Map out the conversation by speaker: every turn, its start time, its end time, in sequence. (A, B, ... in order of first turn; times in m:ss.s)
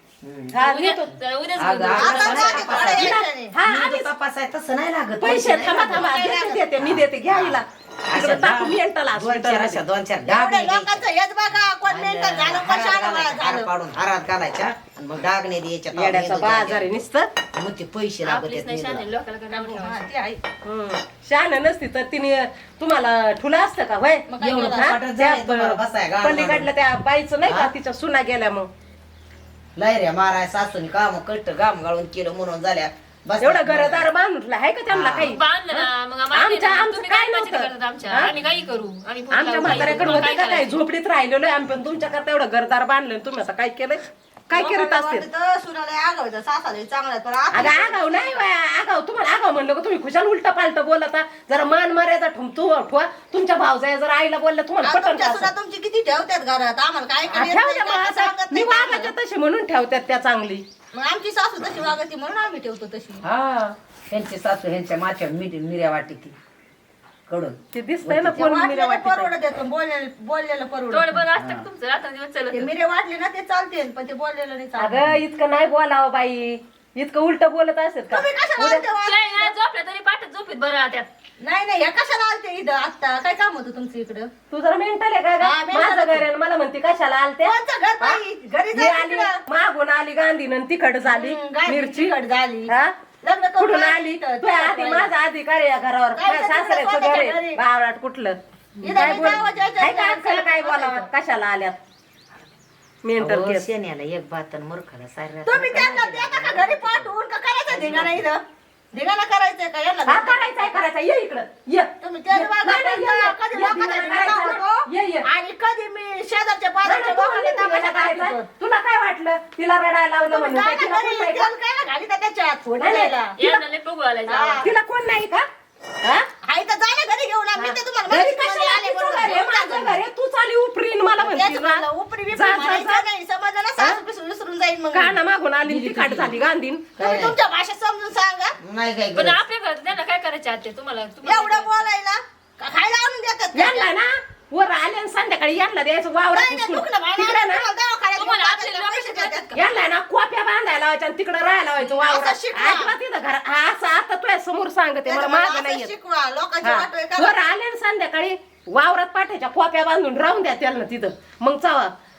0:00.2-0:00.6 A
0:00.5-0:01.1 B
0:00.6-0:02.8 C
0:01.6-0:11.0 A
0:01.9-0:03.5 D
0:02.7-0:04.1 B
0:05.2-0:09.8 B
0:05.7-0:06.6 D
0:10.2-0:13.7 D
0:11.8-0:16.9 A
0:15.9-0:17.3 B
0:17.6-0:19.0 A
0:18.2-0:20.0 C
0:19.5-0:20.4 D
0:20.6-0:28.7 B
0:24.3-0:24.9 D
0:24.4-0:26.7 A
0:27.4-0:27.7 A
0:29.8-0:34.1 A
0:33.4-0:38.3 B
0:34.9-0:35.3 A
0:35.2-0:40.8 C
0:39.3-0:45.2 B
0:39.6-0:40.2 A
0:44.5-0:48.4 D
0:47.5-0:55.5 B
0:54.8-0:59.1 D
0:57.3-1:00.6 B
1:00.9-1:03.2 D
1:03.2-1:06.4 A
1:07.3-1:08.4 A
1:07.7-1:09.3 B
1:08.3-1:11.2 D
1:10.9-1:12.7 C
1:11.4-1:11.7 A
1:12.5-1:15.1 D
1:14.8-1:18.8 B
1:18.1-1:19.5 D
1:19.0-1:21.1 C
1:21.4-1:24.3 D
1:24.5-1:28.2 B
1:25.4-1:26.3 D
1:27.4-1:29.4 D
1:28.7-1:32.1 B
1:31.0-1:32.7 D
1:32.7-1:32.9 B
1:33.2-1:35.1 D
1:33.6-1:41.8 B
1:36.2-1:37.6 D
1:38.8-1:41.0 D
1:43.0-1:43.6 B
1:43.2-1:47.1 A
1:45.4-1:48.4 D
1:47.7-1:48.3 A
1:48.9-1:50.8 D
1:50.1-1:55.2 B
1:52.0-1:58.5 D
1:56.8-2:01.5 B
2:00.3-2:03.4 D
2:02.8-2:03.6 B
2:03.4-2:04.7 C
2:04.3-2:04.7 D
2:04.6-2:05.5 B
2:06.4-2:10.0 D
2:07.6-2:13.0 B
2:11.2-2:15.2 D
2:14.9-2:16.9 B
2:15.6-2:16.4 A
2:17.0-2:17.4 A
2:17.0-2:18.6 D
2:18.6-2:19.4 A
2:19.1-2:21.8 C
2:21.2-2:23.9 D
2:23.5-2:27.6 B
2:26.3-2:29.5 D
2:28.2-2:29.6 C
2:29.5-2:35.9 B
2:31.8-2:32.9 D
2:35.0-2:37.4 D
2:36.6-2:41.9 B